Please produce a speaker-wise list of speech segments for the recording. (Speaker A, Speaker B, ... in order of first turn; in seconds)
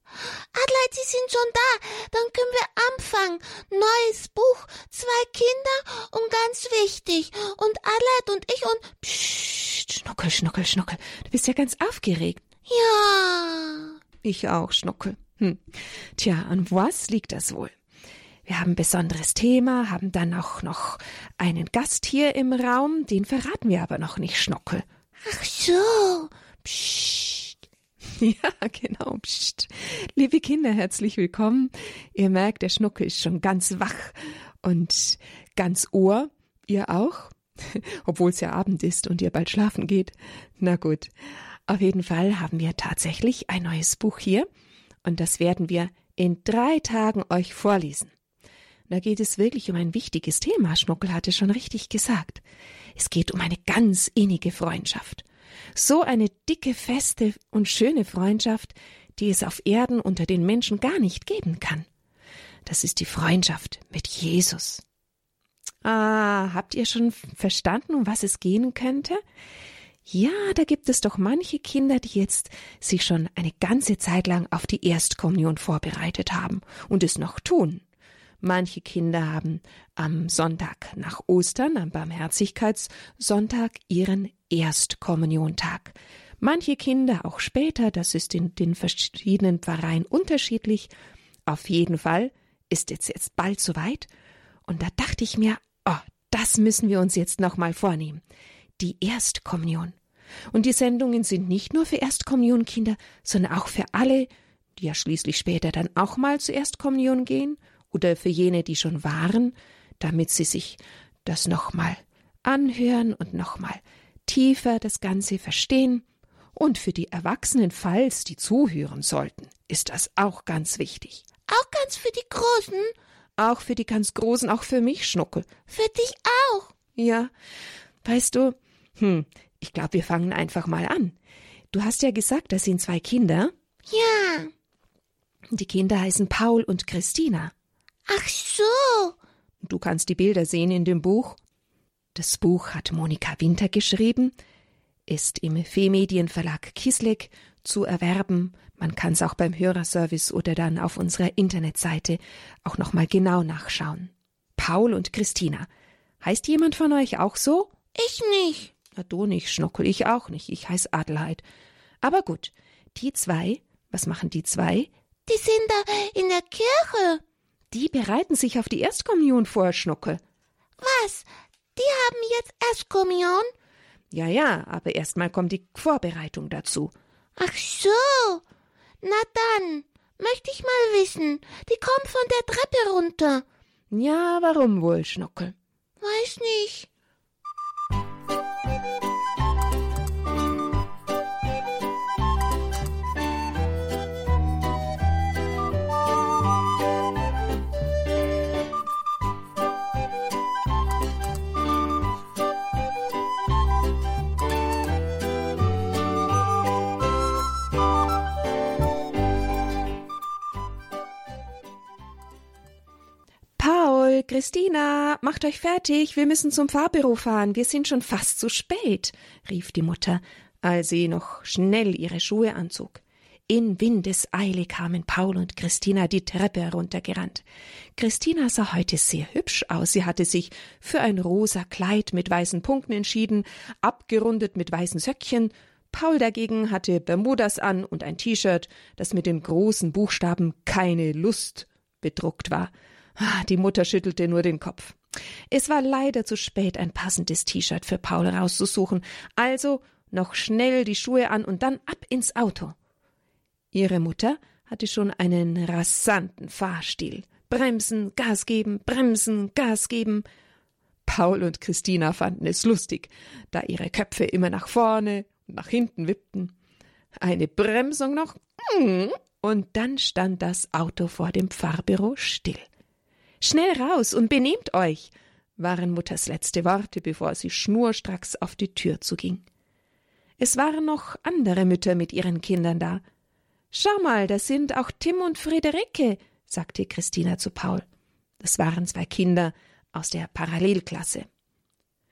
Speaker A: 0.2-9.9, 12.7-13.9, 25.2-27.6, 121.5-122.9, 125.7-126.7, 133.9-134.5, 138.1-139.2, 157.9-158.7, 165.3-167.2, 170.8-173.5, 177.4-178.4, 179.0-183.4, 186.0-186.9
Speaker B: 10.0-12.4, 14.2-15.6, 16.2-17.7, 18.5-24.9, 28.2-41.1, 41.7-44.5, 45.0-48.1, 48.9-52.4, 53.0-55.2, 55.8-61.9, 62.7-64.8, 65.8-69.2, 70.1-77.8, 78.4-90.9, 91.5-94.1, 94.7-98.2, 98.8-100.0, 100.5-121.2, 123.4-125.5, 127.0-127.3, 128.0-131.2, 131.7-133.5, 135.5-137.5, 139.6-141.4, 142.2-144.3, 145.1-155.7, 156.2-157.7, 158.9-161.4, 162.0-164.9, 167.7-170.2, 174.1-176.9, 183.9-185.6, 213.6-227.4, 228.0-245.0, 245.5-252.8, 253.7-260.3, 261.1-266.5, 267.2-272.7, 273.4-279.4, 280.4-283.0, 283.7-287.9, 288.4-291.3